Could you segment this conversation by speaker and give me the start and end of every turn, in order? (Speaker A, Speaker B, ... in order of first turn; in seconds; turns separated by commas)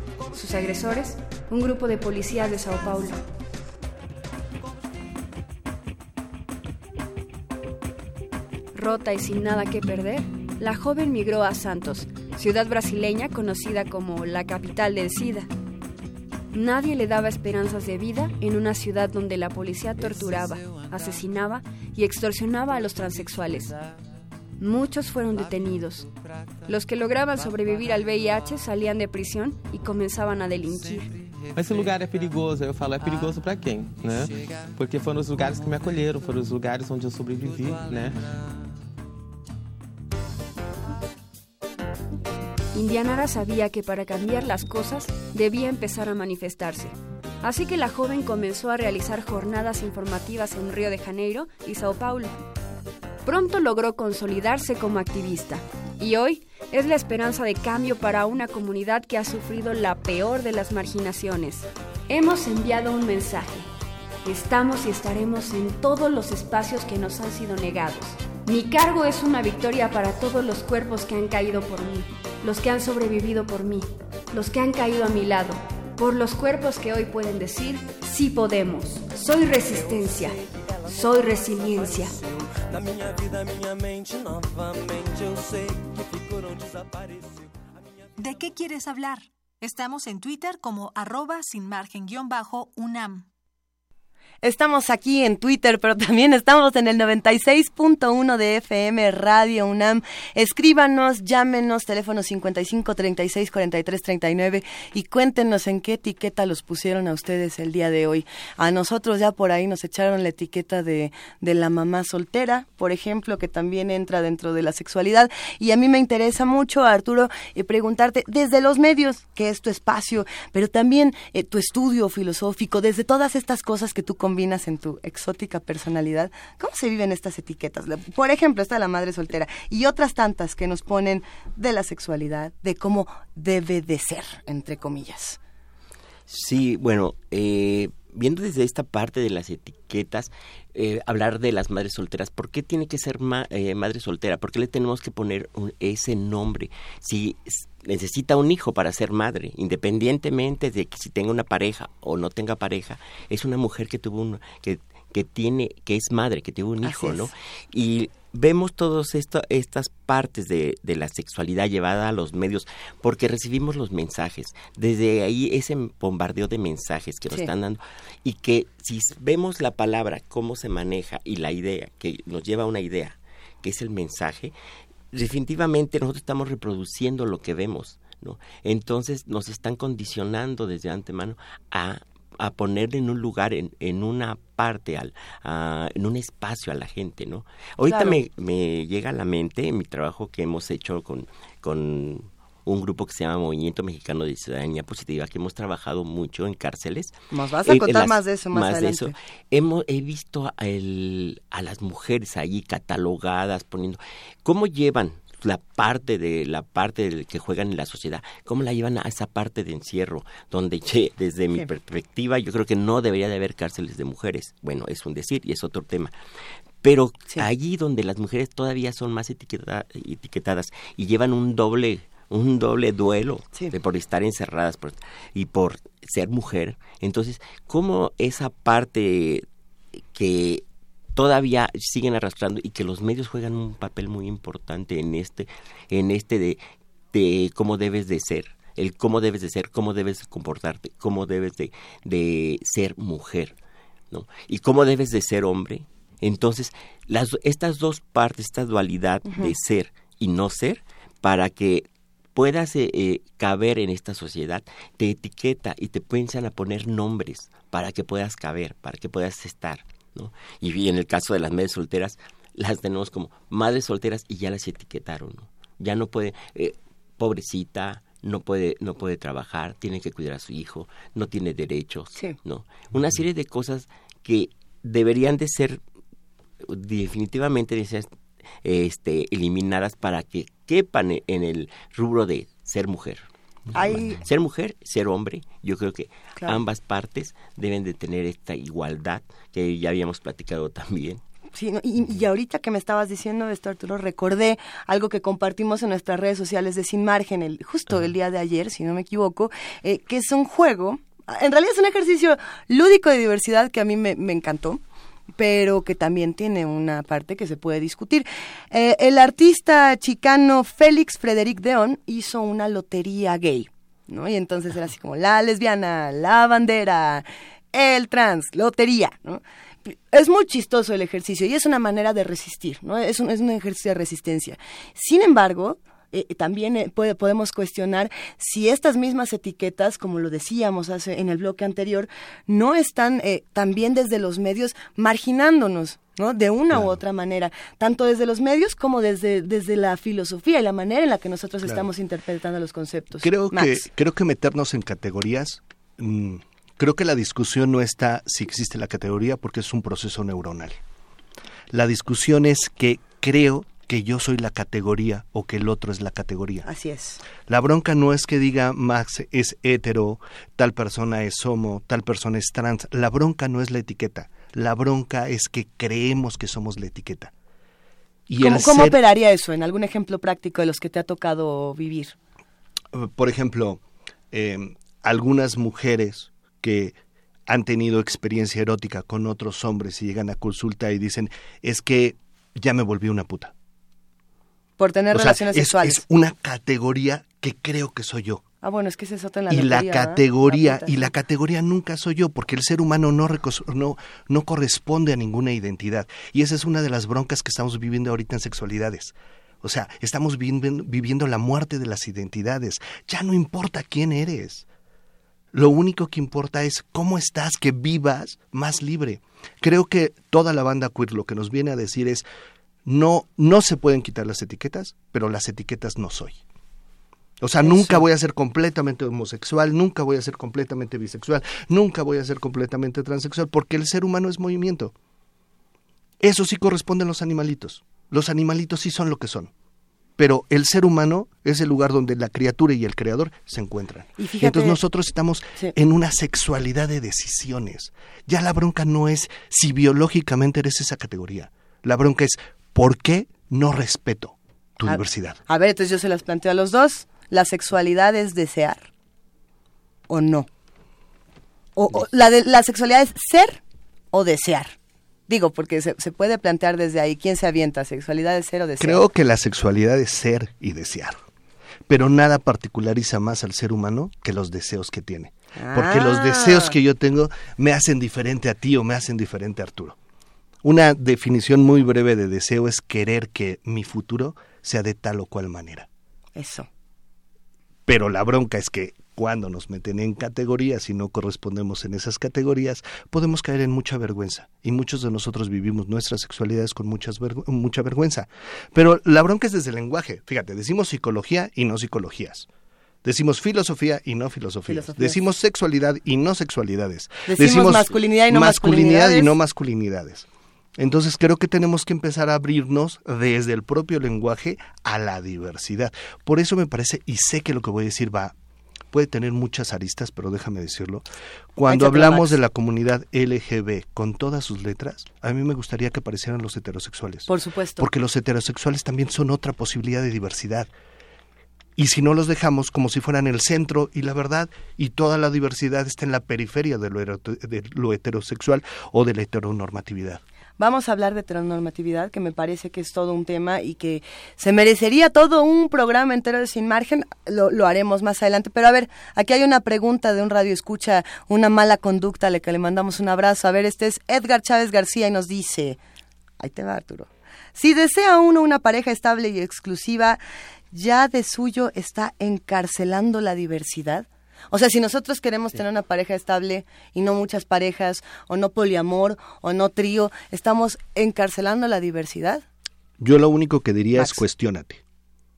Speaker A: 0.3-3.2, Speaker A: 8.7-15.5, Speaker A: 16.5-23.8, Speaker A: 24.6-26.1, Speaker A: 26.7-31.1, Speaker B: 31.6-38.2, Speaker A: 42.7-52.4, Speaker A: 53.2-63.7, Speaker A: 64.2-82.1, Speaker C: 88.2-93.3, Speaker D: 94.4-135.4, Speaker E: 136.3-174.5, Speaker D: 156.8-157.3, Speaker E: 175.1-216.1, Speaker D: 187.9-188.2, Speaker D: 197.3-199.1, Speaker E: 216.8-229.4, Speaker E: 230.0-230.6, Speaker E: 231.1-236.6, Speaker E: 237.1-243.6, Speaker E: 244.1-275.8, Speaker E: 276.6-278.1, Speaker E: 278.6-283.3, Speaker D: 283.7-284.2, Speaker E: 283.8-291.2, Speaker D: 291.6-304.8, Speaker D: 305.4-343.8, Speaker F: 336.7-337.0, Speaker F: 343.2-350.8, Speaker F: 351.7-356.7, Speaker D: 356.6-357.2, Speaker F: 357.5-367.3, Speaker F: 368.3-369.0, Speaker D: 368.4-372.1, Speaker F: 372.9-377.0, Speaker F: 377.5-383.5, Speaker D: 384.8-386.0, Speaker F: 385.1-388.4, Speaker D: 388.6-391.1, Speaker F: 389.5-404.6, Speaker F: 405.5-412.2, Speaker F: 412.9-416.4, Speaker F: 417.4-424.9, Speaker D: 417.6-418.0, Speaker F: 426.2-429.5, Speaker F: 430.2-445.4, Speaker D: 434.2-434.8, Speaker D: 444.9-448.9, Speaker D: 450.1-450.5, Speaker D: 451.8-453.6, Speaker D: 454.1-454.7, Speaker D: 455.3-459.0, Speaker F: 458.8-461.2, Speaker F: 461.9-470.0, Speaker D: 465.6-466.7, Speaker F: 470.6-475.9, Speaker D: 476.4-476.7, Speaker F: 477.9-492.5, Speaker F: 493.0-500.3, Speaker D: 494.7-495.2, Speaker D: 497.3-499.3, Speaker F: 500.8-508.3, Speaker F: 508.9-511.0, Speaker F: 511.6-520.7, Speaker D: 511.7-512.4, Speaker D: 517.3-517.9, Speaker F: 521.8-530.2, Speaker D: 530.6-545.8, Speaker D: 546.4-550.2, Speaker D: 550.7-562.4, Speaker F: 563.0-564.8